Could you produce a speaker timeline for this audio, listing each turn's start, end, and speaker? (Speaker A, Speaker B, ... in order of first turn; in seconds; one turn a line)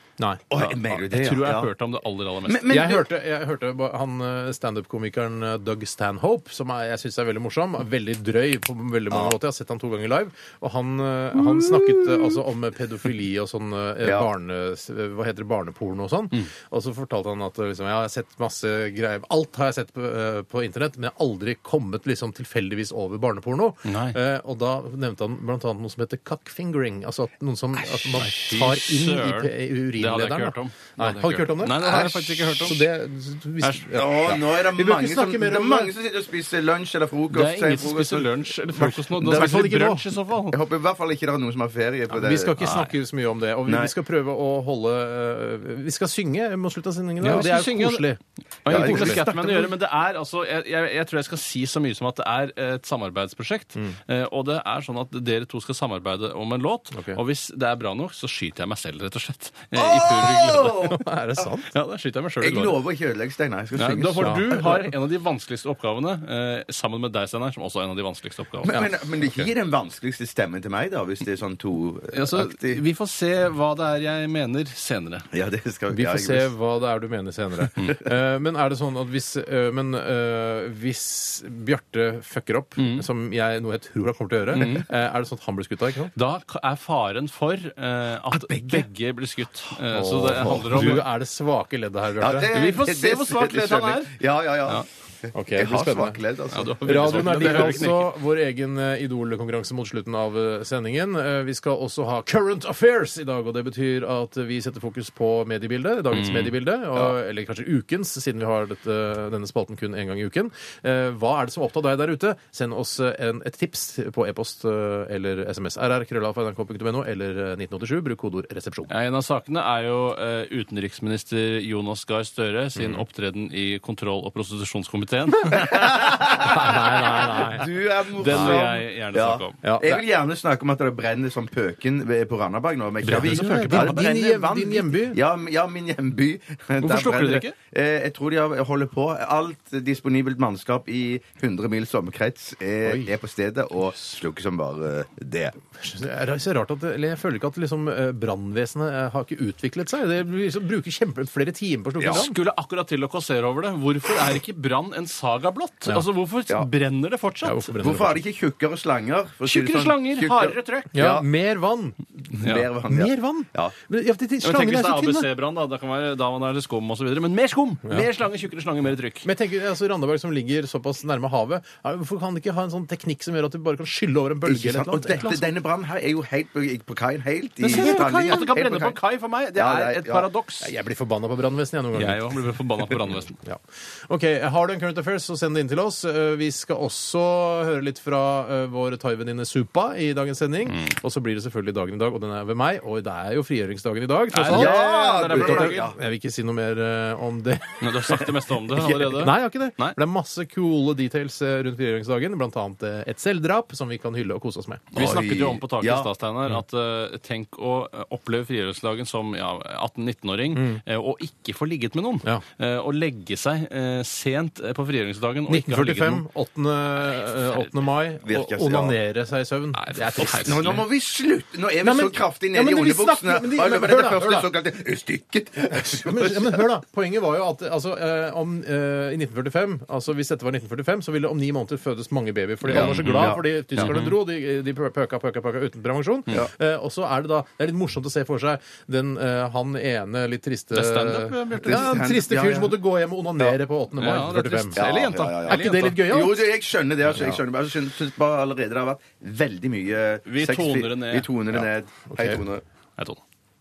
Speaker A: 0.2-0.4
Speaker B: 0.5-1.7
Speaker C: 0.6-2.8
Speaker B: 2.5-3.1
Speaker A: 2.7-35.9
Speaker B: 11.4-12.3
Speaker B: 14.0-14.3
Speaker C: 23.9-24.2
Speaker C: 28.2-32.8
Speaker C: 33.6-33.9
Speaker B: 34.0-38.3
Speaker C: 37.3-40.6
Speaker A: 38.7-40.1
Speaker B: 39.2-39.5
Speaker B: 40.5-42.6
Speaker A: 42.1-49.2
Speaker C: 42.6-42.9
Speaker B: 43.7-43.9
Speaker C: 47.2-48.1
Speaker C: 48.6-60.9
Speaker B: 48.7-49.7
Speaker A: 56.9-57.2
Speaker B: 59.8-61.5
Speaker A: 60.9-61.7
Speaker C: 61.7-62.8
Speaker B: 62.4-64.9
Speaker C: 63.8-69.5
Speaker A: 64.2-64.6
Speaker B: 68.6-72.8
Speaker C: 72.1-75.3
Speaker B: 75.3-76.5
Speaker A: 75.9-86.1
Speaker B: 77.7-78.0
Speaker C: 82.8-83.0
Speaker C: 84.5-84.9
Speaker C: 86.2-91.0
Speaker B: 88.3-88.9
Speaker A: 89.9-92.5
Speaker B: 92.2-97.9
Speaker C: 92.5-94.8
Speaker A: 95.3-96.2
Speaker C: 96.5-98.1
Speaker A: 96.8-118.9
Speaker C: 106.1-106.5
Speaker C: 118.9-127.2
Speaker B: 125.5-145.6
Speaker A: 126.4-127.7
Speaker C: 128.2-129.6
Speaker A: 128.2-128.8
Speaker A: 129.6-130.0
Speaker C: 133.0-134.0
Speaker A: 133.1-135.2
Speaker C: 136.8-137.6
Speaker A: 142.8-143.1
Speaker A: 145.8-152.4
Speaker B: 152.0-152.2
Speaker C: 152.1-157.8
Speaker A: 157.4-158.2
Speaker B: 157.8-161.2
Speaker C: 159.4-161.0
Speaker A: 160.9-165.3
Speaker B: 162.3-163.7
Speaker C: 162.4-162.7
Speaker C: 164.4-169.3
Speaker A: 169.2-175.4
Speaker B: 174.4-179.0
Speaker C: 177.6-180.7
Speaker A: 177.7-178.4
Speaker B: 179.6-180.3
Speaker A: 180.6-182.3
Speaker C: 181.9-183.4
Speaker A: 183.4-197.9
Speaker C: 194.3-195.9
Speaker B: 194.5-196.0
Speaker C: 197.8-200.0
Speaker B: 198.7-199.3
Speaker A: 199.2-205.2
Speaker C: 204.9-216.3
Speaker B: 204.9-206.1
Speaker A: 210.5-210.8
Speaker A: 215.5-220.8
Speaker C: 217.1-217.8
Speaker B: 218.2-219.0
Speaker C: 219.8-220.8
Speaker B: 220.2-226.7
Speaker A: 221.8-224.5
Speaker A: 225.7-244.9
Speaker C: 232.7-234.2
Speaker B: 232.7-233.9
Speaker C: 240.7-242.0
Speaker B: 241.6-242.8
Speaker C: 244.0-246.0
Speaker B: 244.8-252.6
Speaker A: 245.5-246.4
Speaker A: 247.1-247.4
Speaker C: 250.3-251.3
Speaker A: 251.5-252.4